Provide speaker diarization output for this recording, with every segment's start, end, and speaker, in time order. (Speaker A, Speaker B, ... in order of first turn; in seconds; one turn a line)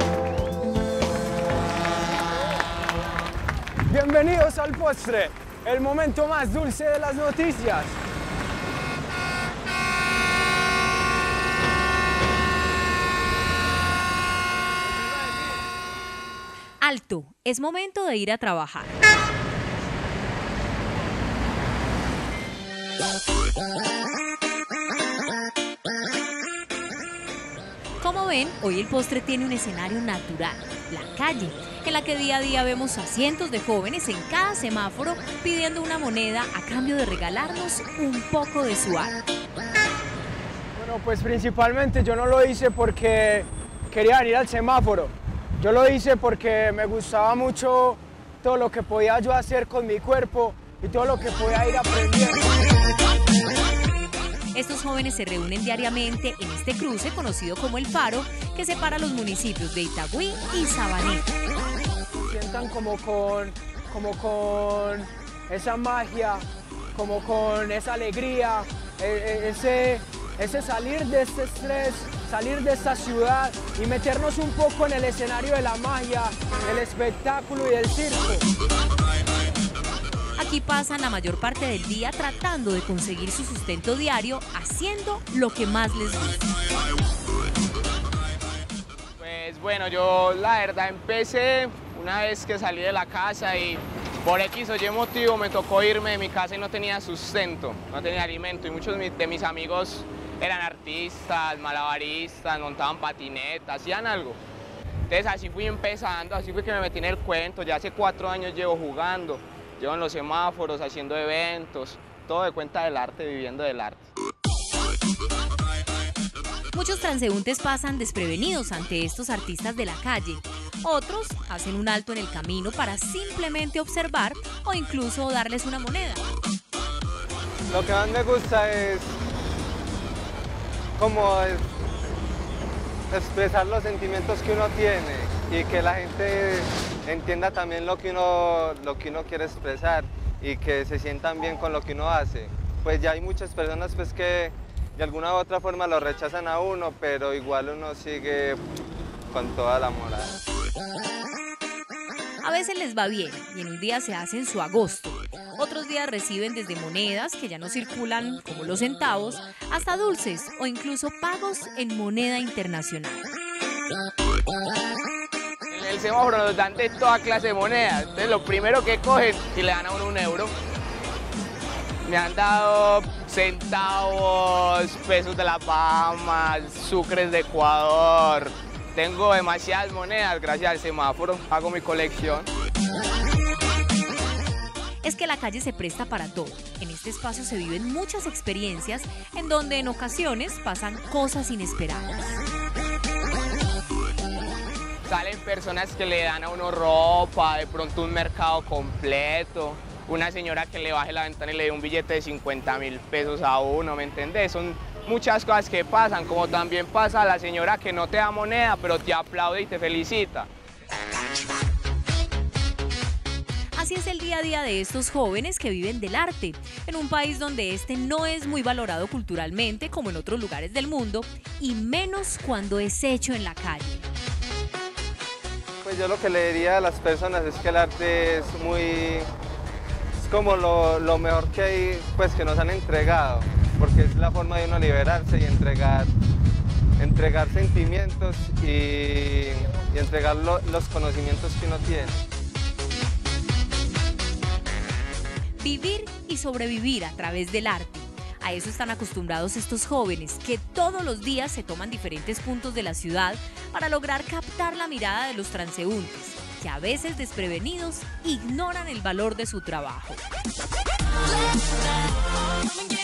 Speaker A: 3.9-8.0
Speaker B: 16.8-19.0
Speaker B: 28.0-39.2
Speaker A: 40.8-52.5
Speaker B: 54.5-61.3
Speaker A: 62.1-78.5
Speaker B: 80.4-86.5
Speaker C: 89.2-104.4
Speaker C: 105.1-114.1
Speaker B: 116.7-126.2
Speaker D: 127.7-129.2
Speaker D: 131.0-131.7
Speaker D: 133.1-148.6
Speaker D: 149.3-150.4
Speaker B: 152.4-163.2
Speaker C: 165.7-170.5
Speaker C: 172.1-182.5
Speaker B: 185.0-192.4
Speaker C: 195.1-210.5
Speaker B: 213.7-224.1
Speaker D: 225.8-229.3
Speaker D: 230.2-236.1
Speaker D: 237.0-242.2
Speaker B: 245.6-260.2